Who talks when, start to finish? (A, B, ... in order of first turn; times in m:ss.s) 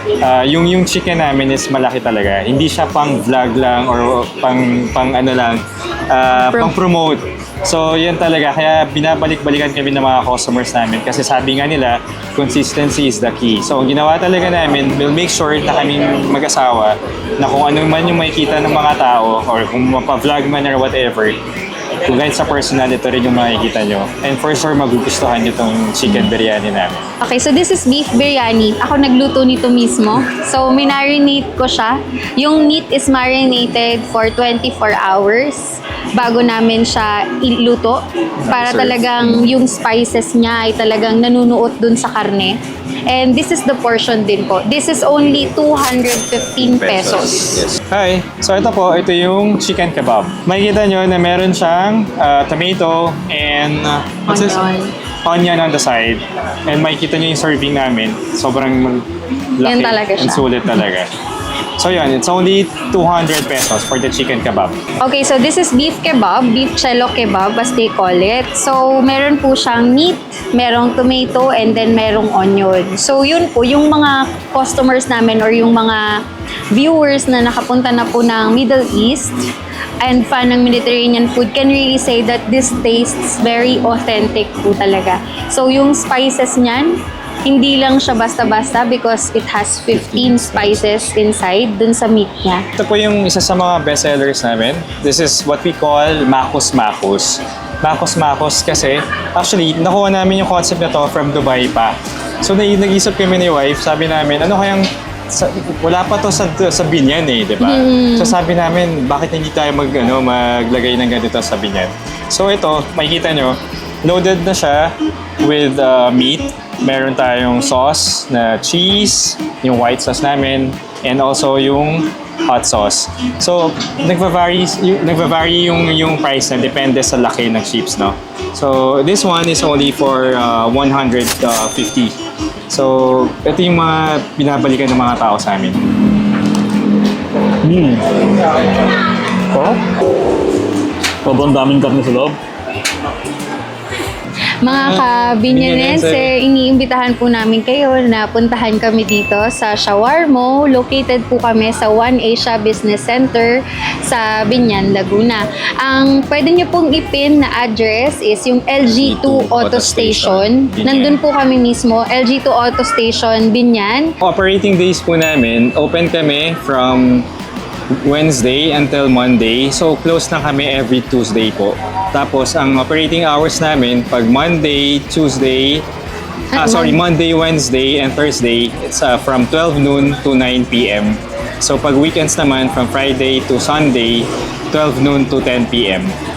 0:00.2-0:21.4 A
0:06.3-0:06.7 B
0:22.0-0:27.0 A
0:27.2-0:38.0 B
0:38.4-0:39.5 A
0:38.5-0:42.6 B
0:43.1-0:47.7 B
0:46.6-0:54.6 A
0:54.3-0:54.9 B
0:55.2-1:01.1 A
0:59.6-1:00.5 B
1:01.8-1:04.8 A
1:05.0-1:16.0 B
1:16.7-1:19.4 B
1:20.0-1:26.9 B
1:27.4-1:32.6 B
1:29.9-1:31.1 A
1:32.8-2:12.2 A
1:47.6-1:48.4 B
2:12.7-2:15.8 A
2:17.6-2:18.9 C
2:19.5-2:19.8 C
2:21.2-2:22.4 C
2:24.6-2:44.1 B
2:24.6-2:26.3 A
2:38.9-2:41.2 A
2:44.2-2:47.3 A
2:48.0-2:55.8 A
2:56.5-2:57.0 B
2:56.5-3:06.2 A